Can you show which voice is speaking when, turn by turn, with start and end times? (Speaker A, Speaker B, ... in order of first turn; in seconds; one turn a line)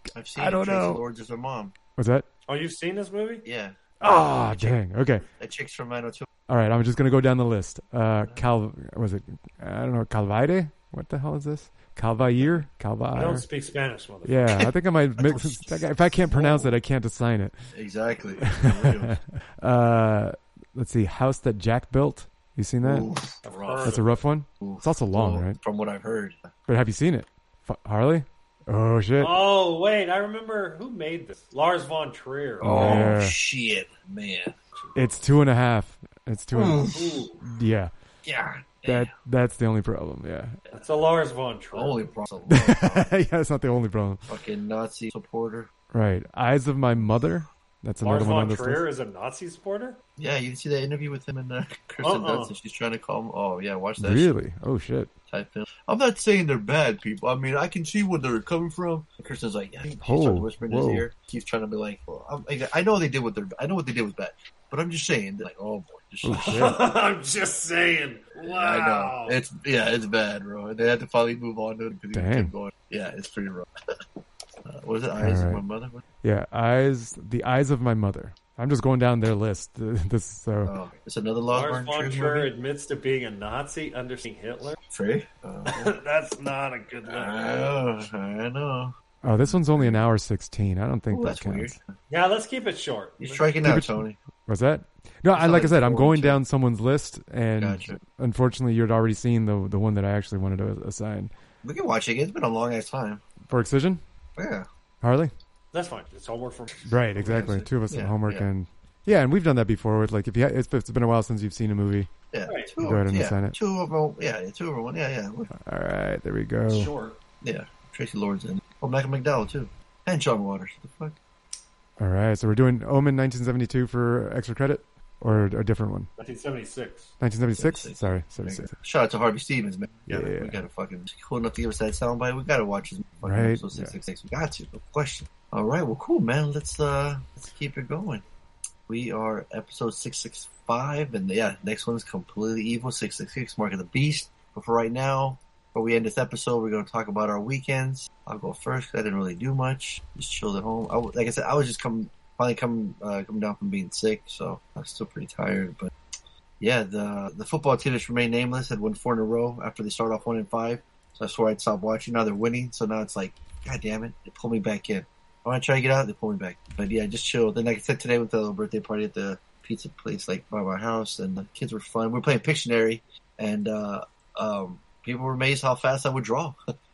Speaker A: 0.1-1.7
Speaker B: 0.3-1.0
Speaker B: 2.0-2.3
Speaker C: 2.5-3.5
Speaker A: 3.4-4.8
Speaker B: 4.0-5.2
Speaker A: 5.3-6.3
Speaker B: 6.5-13.4
Speaker C: 13.1-14.4
Speaker B: 14.2-17.6
Speaker A: 15.2-16.8
Speaker A: 17.7-19.2
Speaker B: 18.5-23.1
Speaker A: 22.8-23.9
Speaker C: 23.4-24.2
Speaker B: 23.8-25.6
Speaker A: 24.6-26.4
Speaker B: 26.7-29.4
Speaker C: 29.2-33.1
Speaker B: 32.6-33.4
Speaker A: 32.6-34.5
Speaker C: 34.8-35.2
Speaker B: 34.9-36.9
Speaker A: 36.5-37.2
Speaker C: 36.8-37.4
Speaker B: 37.4-37.9
Speaker A: 38.2-39.1
Speaker B: 38.8-40.6
Speaker C: 40.7-42.1
Speaker A: 41.7-43.1
Speaker B: 42.5-44.3
Speaker A: 44.3-45.7
Speaker B: 45.9-48.9
Speaker C: 48.0-50.0
Speaker A: 50.2-54.3
Speaker C: 52.0-52.5
Speaker B: 54.0-55.1
Speaker A: 55.3-66.8
Speaker B: 60.0-61.0
Speaker B: 66.2-66.8
Speaker C: 66.3-69.4
Speaker A: 68.4-73.7
Speaker B: 72.1-72.5
Speaker A: 74.7-76.0
Speaker B: 75.2-75.6
Speaker B: 76.2-80.7
Speaker A: 80.6-82.5
Speaker C: 81.5-84.8
Speaker A: 84.9-85.9
Speaker C: 85.7-87.7
Speaker A: 87.1-88.9
Speaker B: 89.2-91.7
Speaker A: 89.5-90.1
Speaker A: 91.1-91.9
Speaker C: 92.1-93.5
Speaker A: 93.2-94.2
Speaker B: 93.6-101.3
Speaker A: 95.3-96.4
Speaker A: 97.6-98.0
Speaker A: 101.6-103.2
Speaker B: 103.5-104.0
Speaker A: 104.4-104.7
Speaker B: 105.0-105.3
Speaker C: 105.7-107.4
Speaker B: 106.9-112.1
Speaker A: 107.2-108.5
Speaker A: 112.3-115.5
Speaker C: 112.5-112.7
Speaker B: 112.8-113.5
Speaker B: 115.5-116.9
Speaker C: 116.7-117.2
Speaker A: 117.4-121.2
Speaker B: 122.0-126.1
Speaker C: 126.2-127.1
Speaker B: 127.2-128.7
Speaker A: 127.6-138.2
Speaker B: 130.1-130.5
Speaker B: 133.2-133.9
Speaker A: 138.9-155.9
Speaker A: 156.6-176.6